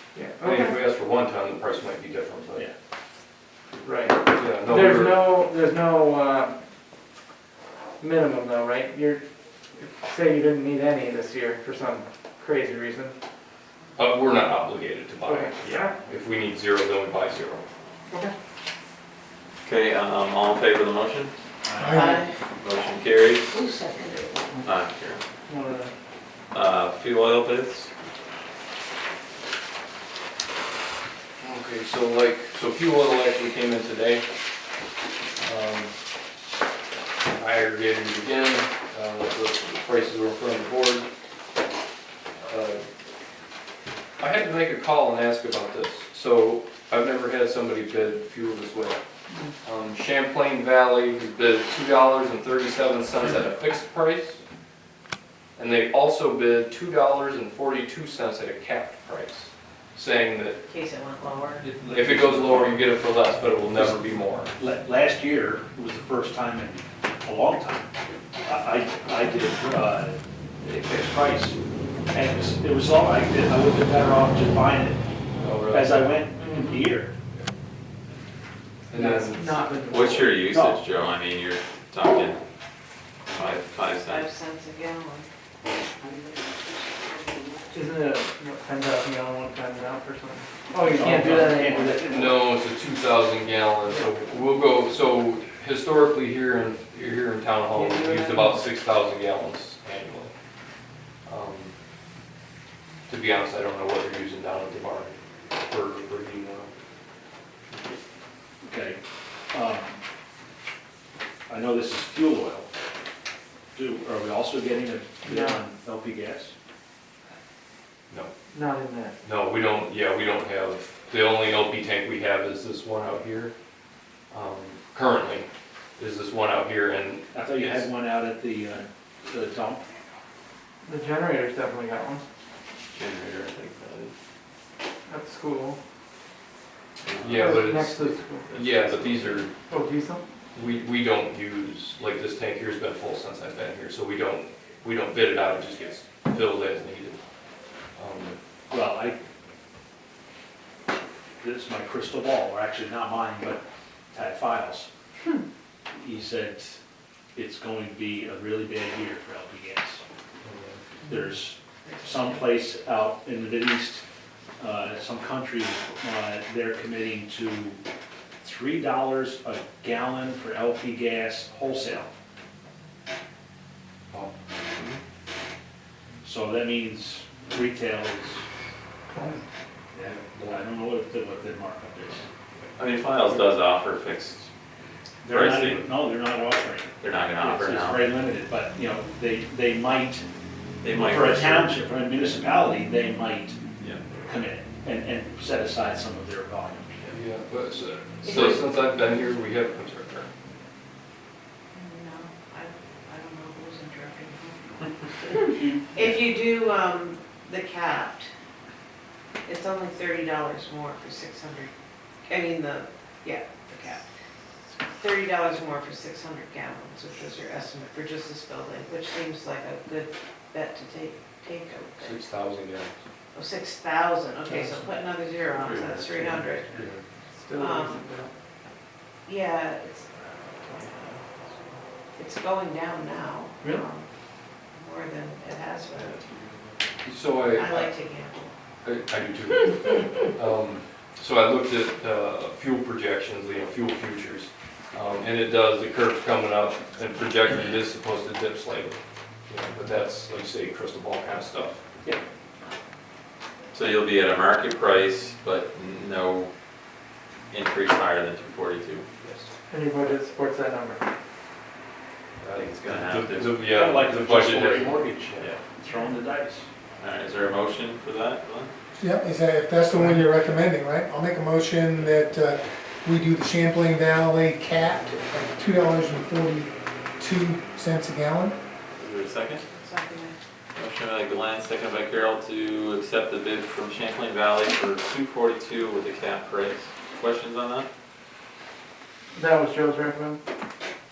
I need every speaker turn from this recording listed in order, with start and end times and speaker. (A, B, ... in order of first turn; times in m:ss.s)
0:00.2-0:00.8 A
0:00.4-0:02.7 B
0:03.8-0:06.6 A
0:04.2-0:05.4 B
0:08.0-0:09.2 A
0:09.8-0:13.1 A
0:14.0-0:17.6 B
0:15.2-0:16.0 A
0:19.6-0:21.3 C
0:21.7-0:22.1 D
0:21.8-0:22.2 E
0:21.9-0:22.3 F
0:22.6-0:23.6 C
0:23.5-0:24.6 F
0:24.6-0:25.2 C
0:25.5-0:25.9 A
0:26.5-0:27.9 C
0:31.4-0:34.2 B
0:35.4-0:35.9 B
0:37.4-0:41.1 B
0:42.5-0:42.8 B
0:44.2-0:49.0 B
0:49.6-0:54.4 B
0:55.6-1:00.6 B
1:00.7-1:01.6 F
1:01.6-1:02.8 D
1:01.8-1:04.5 B
1:03.7-1:04.0 D
1:04.6-1:07.9 D
1:08.4-1:11.6 D
1:12.1-1:15.0 D
1:15.4-1:16.2 B
1:15.7-1:17.2 D
1:16.4-1:16.9 F
1:18.9-1:19.6 B
1:18.9-1:20.4 A
1:19.8-1:22.4 C
1:20.5-1:20.8 D
1:23.3-1:24.3 C
1:24.0-1:25.3 F
1:26.0-1:27.2 F
1:27.7-1:32.0 A
1:30.8-1:32.5 D
1:32.0-1:40.3 B
1:37.7-1:38.7 A
1:41.3-1:41.7 B
1:43.1-1:46.7 B
1:48.6-1:49.0 D
1:49.5-1:50.0 D
1:51.5-1:52.7 D
1:53.8-1:56.5 D
1:55.2-1:55.6 A
1:58.5-1:59.2 A
1:59.2-2:03.5 B
2:04.3-2:07.9 B
2:07.3-2:09.9 D
2:10.8-2:12.2 A
2:12.9-2:14.1 C
2:15.1-2:15.8 A
2:17.0-2:17.6 C
2:17.2-2:19.6 B
2:17.4-2:18.5 A
2:18.5-2:19.4 C
2:19.7-2:20.2 A
2:20.6-2:27.2 B
2:28.0-2:28.4 B
2:28.7-2:29.2 D
2:31.4-2:34.9 D
2:35.9-2:36.8 D
2:37.4-2:40.0 D
2:40.4-2:40.8 B
2:41.0-2:41.3 F
2:41.1-2:44.0 D
2:41.8-2:42.5 F
2:44.6-2:47.8 D
2:48.4-2:52.1 D
2:54.7-2:55.0 C
2:56.2-2:58.4 D
2:59.1-2:59.4 A
3:00.0-3:02.3 D
3:02.8-3:04.5 C
3:05.2-3:10.2 D
3:05.3-3:05.9 C
3:07.0-3:08.1 C
3:10.8-3:11.8 C
3:11.0-3:13.6 D
3:14.2-3:17.1 D
3:17.0-3:20.3 B
3:18.2-3:18.9 F
3:21.7-3:28.3 F
3:29.5-3:31.7 F
3:32.3-3:34.0 F
3:34.9-3:42.2 F
3:42.0-3:42.9 B
3:43.3-3:46.7 F
3:44.5-3:44.9 A
3:45.6-3:46.2 C
3:46.7-3:47.0 B
3:47.4-3:48.3 A
3:47.6-3:48.0 F
3:49.3-3:50.1 F
3:50.7-3:51.2 C
3:52.2-3:54.1 F
3:54.7-3:56.2 F
3:57.0-3:57.9 B
3:57.5-3:58.5 F
3:58.8-4:09.0 B
4:09.5-4:11.8 B
4:13.7-4:16.5 C
4:17.5-4:19.1 C
4:19.2-4:19.5 B
4:19.7-4:21.0 A
4:22.4-4:25.4 B
4:22.5-4:23.6 C
4:23.7-4:26.7 D
4:27.0-4:28.7 C
4:29.0-4:38.6 E
4:39.0-4:39.6 C
4:39.7-4:40.4 F
4:40.8-4:47.9 C
4:49.3-4:50.4 A